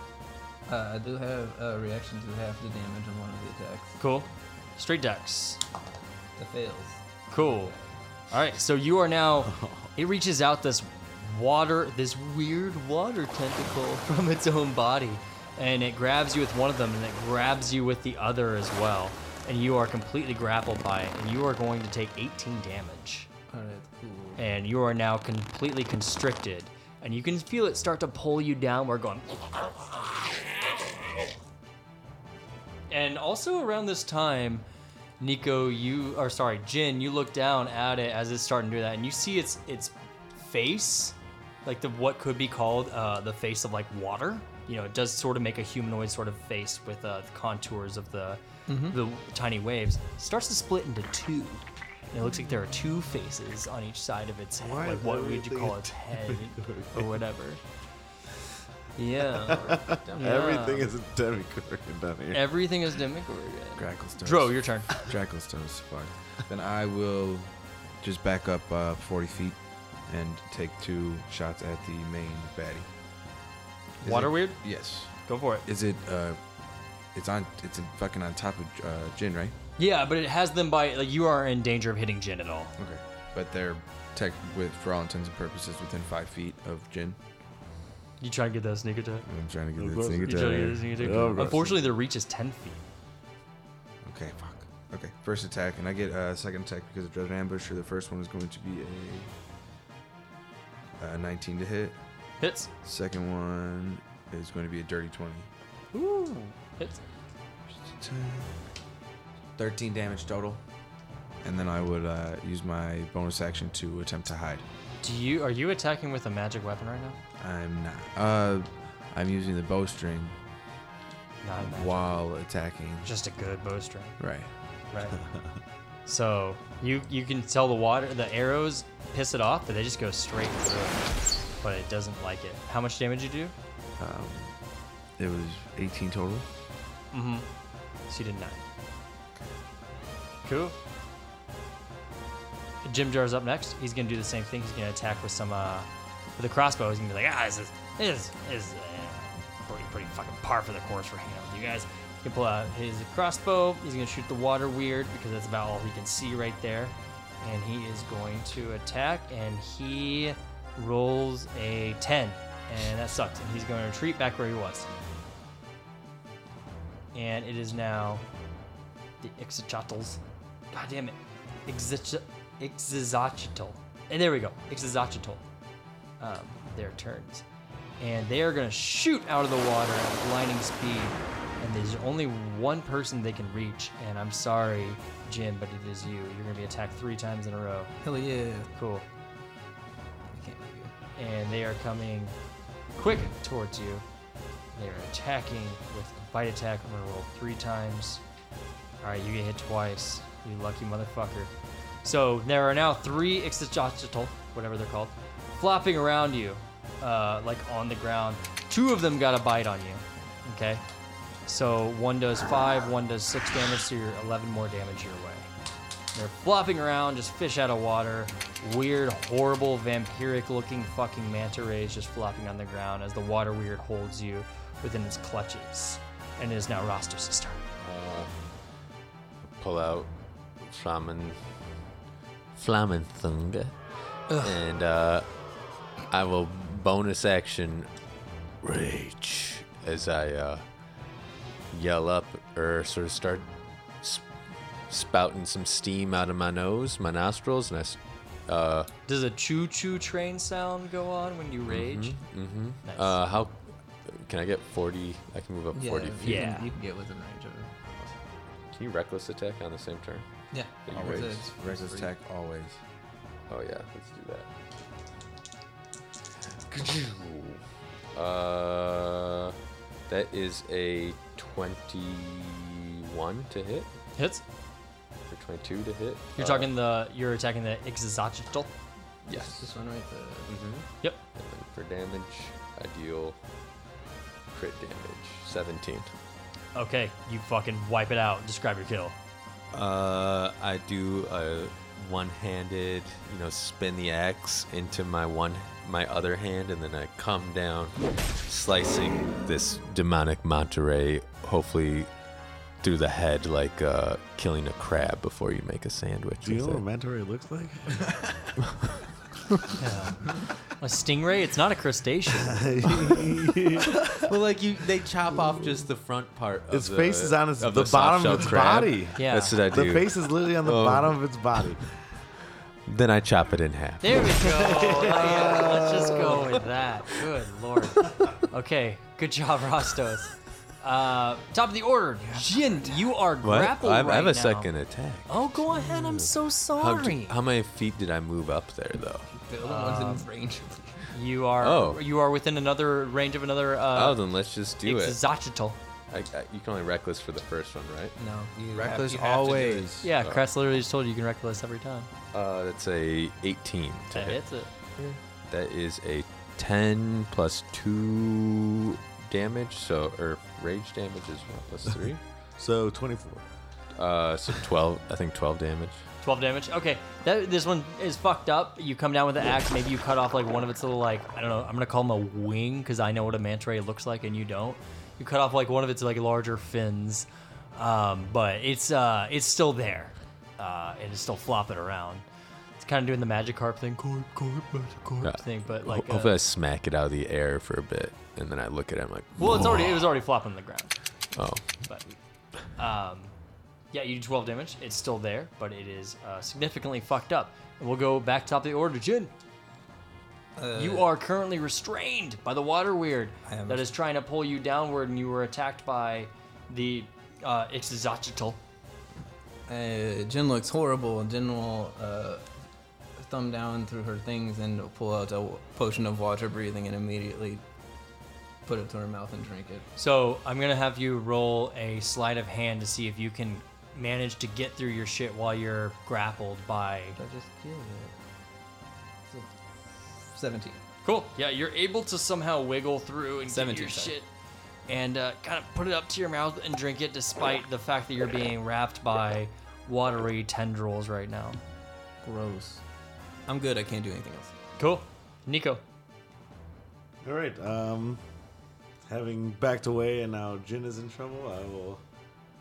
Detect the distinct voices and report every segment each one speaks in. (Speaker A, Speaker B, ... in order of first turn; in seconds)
Speaker A: 0.7-4.0, 6.4-7.0, 23.5-24.4, 48.7-49.0, 188.0-188.7, 190.3-190.9, 255.7-258.2, 260.5-262.1, 279.3-280.5, 332.3-333.1, 339.3-341.1, 348.2-349.9, 400.6-401.1, 403.5-403.9, 409.7-412.5, 413.2-417.6, 418.6-419.9, 427.2-428.1, 429.3-430.8, 433.5-434.2, 442.2-442.8, 443.5-444.5
Speaker B: 4.0-5.6, 7.3-7.8, 8.3-23.3, 24.4-30.3, 32.9-34.6, 35.2-57.6, 59.0-60.9, 62.3-65.0, 74.0-74.6, 75.2-75.7, 79.8-82.7, 88.2-89.3, 90.3-92.8, 102.4-102.7, 105.9-107.0, 115.0-117.2, 121.4-122.3, 123.0-124.2, 124.9-125.2, 126.1-131.1, 131.6-133.5, 137.1-137.5, 138.1-138.7, 140.4-140.8, 142.8-164.9, 167.1-168.2, 169.2-170.2, 170.7-175.4, 176.2-177.4, 178.0-187.9, 188.7-189.1, 191.2-192.3, 193.0-194.0, 194.7-198.2, 199.0-201.5, 202.0-210.8, 211.5-215.5, 216.1-227.6, 249.1-252.2, 252.8-253.2, 256.2-256.7, 274.2-274.4, 276.4-278.7, 286.8-289.2, 309.8-312.6, 319.2-319.6, 324.0-334.7, 335.3-337.4, 339.6-340.3, 341.1-344.2, 344.8-345.8, 350.0-352.1, 354.1-354.7, 366.2-382.2, 382.8-386.4, 389.4-390.9, 391.8-392.1, 392.7-393.3, 393.9-399.3, 400.8-408.6, 420.0-427.2, 431.0-434.3, 434.9-441.6, 444.8-445.8
Speaker C: 9.4-9.9, 54.6-57.1, 59.5-62.4, 89.8-91.9, 306.4-308.1, 312.5-314.1, 316.7-321.9, 324.5-326.4, 362.6-363.5, 447.2-448.2, 449.1-452.0
Speaker D: 63.8-72.9, 74.0-75.1, 75.7-76.4, 77.1-79.5, 82.8-87.2, 89.3-91.6, 94.0-99.3, 101.0-102.0, 102.8-105.5, 107.8-108.6, 109.6-110.6, 111.4-114.7, 117.4-120.4, 121.6-123.1, 124.2-124.5, 134.0-134.6, 135.2-136.5, 260.9-262.8, 348.7-350.1
Speaker E: 227.8-228.3, 229.4-231.4, 232.5-233.8, 234.4-235.3, 236.1-237.9, 238.6-240.7, 241.7-243.5, 244.0-244.3, 244.9-248.9, 251.7-256.5, 258.7-260.3, 260.9-261.4, 263.5-264.5, 266.7-267.6, 268.1-269.6, 270.1-273.9, 275.3-276.7, 279.2-279.7, 280.5-283.4, 284.5-286.1, 289.7-302.1, 302.8-306.8, 314.0-321.8, 322.9-324.4, 333.4-339.3, 341.6-342.0, 343.9-345.2, 346.1-348.1, 350.2-350.5, 352.3-354.4, 355.5-362.2, 364.0-366.0, 385.2-390.1, 391.3-391.8